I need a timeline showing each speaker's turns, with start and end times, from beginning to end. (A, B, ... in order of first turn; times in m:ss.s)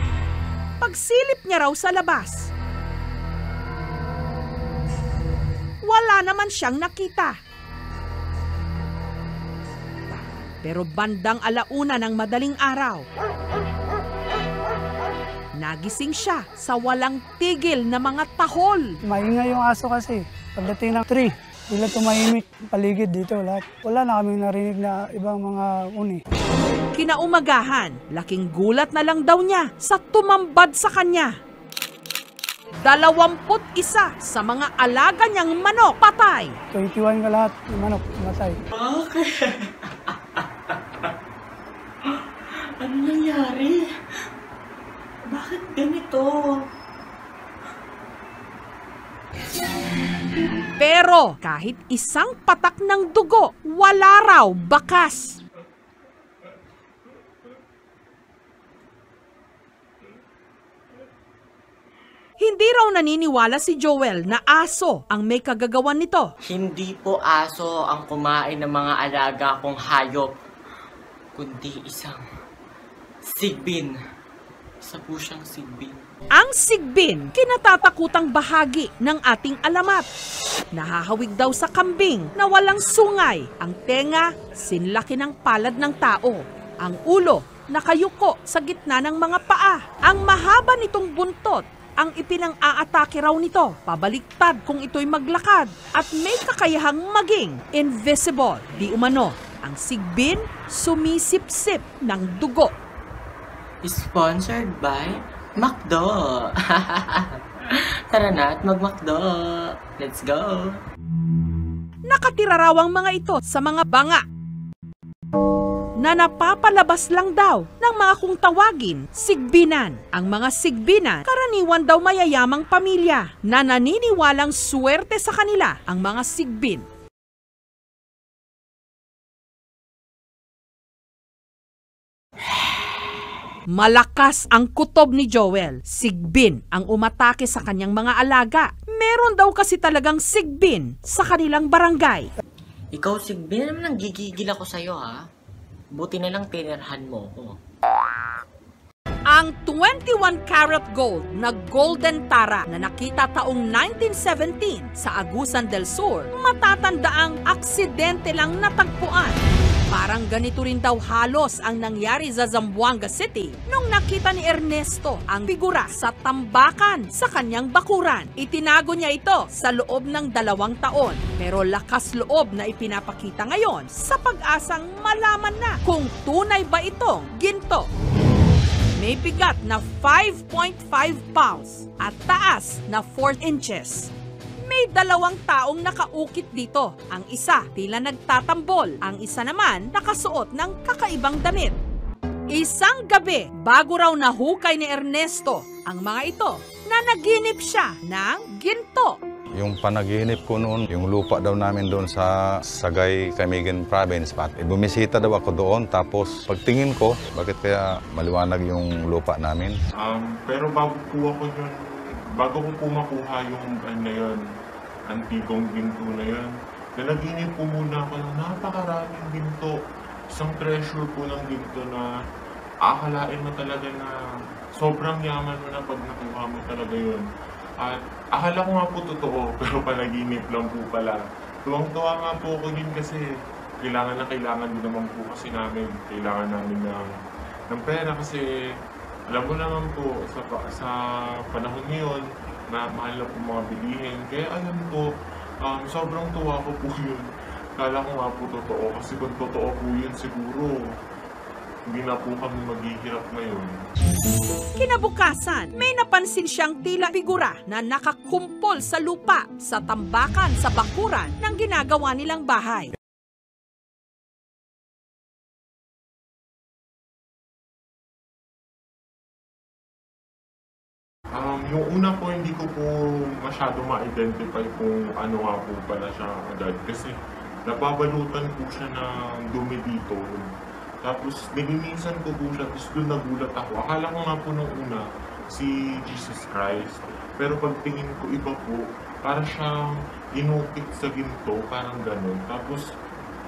0:00.8-0:02.5 A
0:05.8-0:07.3 A
0:10.6-0:13.0 A
0:15.6-0:18.9 A
0:19.0-0:26.2 B
0:26.9-0:31.3 A
0:32.8-0:36.5 A
0:36.7-0:38.6 B
0:38.7-0:41.1 C
0:42.8-0:44.2 C
0:45.3-0:46.6 C
0:50.8-0:55.4 A
1:02.4-1:06.3 A
1:06.4-1:10.3 C
1:11.3-1:12.2 C
1:13.2-1:13.9 C
1:14.8-1:16.0 C
1:16.3-1:20.0 A
1:20.7-1:42.7 A
1:43.8-1:50.8 C
1:52.1-1:54.2 A
1:56.0-2:06.8 A
2:13.7-2:22.3 A
2:22.9-2:25.2 C
2:26.0-2:27.6 C
2:29.3-2:39.4 A
2:39.9-2:57.9 A
2:59.0-3:11.8 A
3:12.5-3:19.2 A
3:19.6-3:29.7 D
3:30.0-3:31.7 E
3:32.4-3:34.4 E
3:35.1-3:39.8 E
3:40.3-3:42.1 E
3:42.8-3:44.1 E
3:44.7-3:47.2 E
3:47.8-3:53.2 E
3:53.8-3:57.1 E
3:57.7-3:58.4 E
3:59.3-4:00.9 E
4:01.5-4:05.1 E
4:05.6-4:07.2 E
4:07.8-4:10.8 E
4:11.9-4:13.8 E
4:14.8-4:22.9 A
4:31.3-4:40.4 E
4:41.0-4:52.8 E